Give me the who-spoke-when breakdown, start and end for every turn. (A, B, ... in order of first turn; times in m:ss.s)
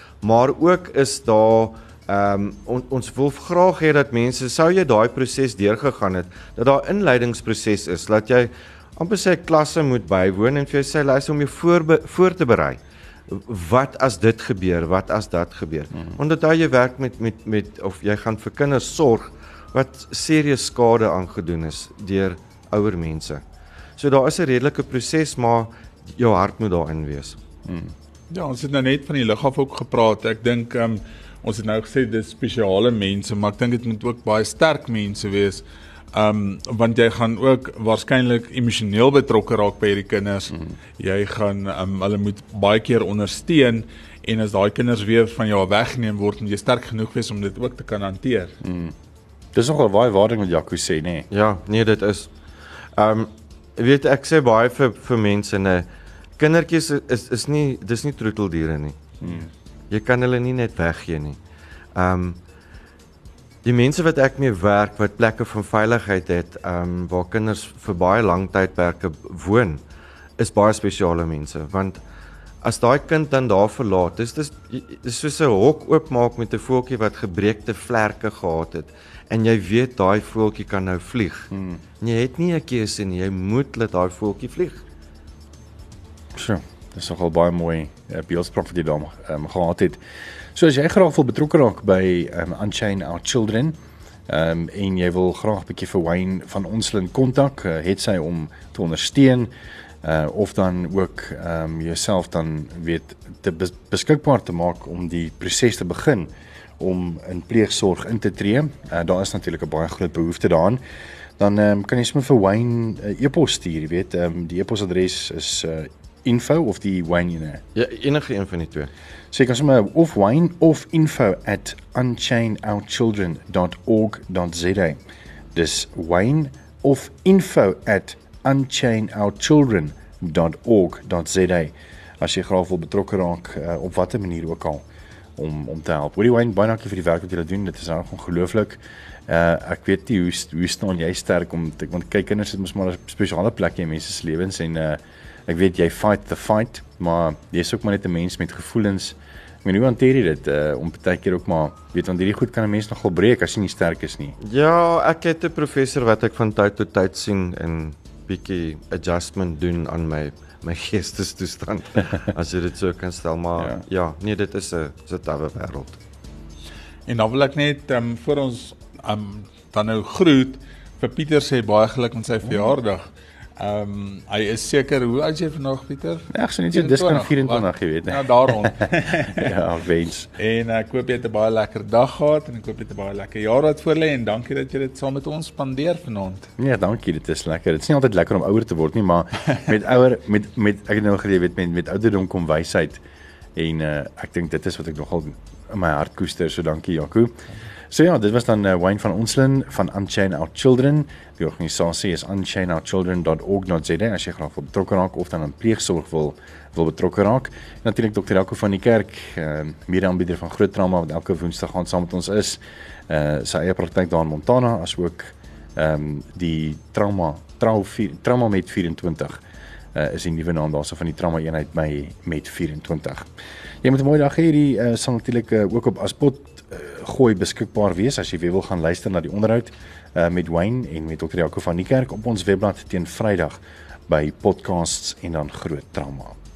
0:00.2-0:23.4 A
0:24.0-0:27.4 A
0:27.7-0:27.9 B
0:28.3-0:48.6 C
0:48.6-0:49.0 B
0:49.5-0:51.3 B
0:51.3-0:52.3 A
0:53.0-0:55.9 A
0:56.4-0:59.2 A
0:59.2-0:59.5 B
0:59.9-1:01.4 A
1:02.0-1:02.4 A
1:03.6-1:09.8 A
1:10.4-1:12.0 A
1:12.6-1:21.5 A
1:21.5-1:21.8 B
1:22.0-1:24.8 A
1:26.4-1:30.0 B
1:30.6-1:33.8 B
1:34.3-1:39.5 B
1:40.0-1:50.8 B
1:51.4-1:57.6 B
1:57.8-1:58.9 A
1:59.3-2:05.0 B
2:05.5-2:14.8 B
2:15.4-2:34.4 B
2:34.4-2:46.0 A
2:47.1-2:59.5 C
2:56.3-3:00.3 B
3:00.4-3:06.5 C
3:06.6-3:13.0 B
3:13.6-3:39.4 B
3:39.9-3:43.3 B
3:43.8-3:56.4 B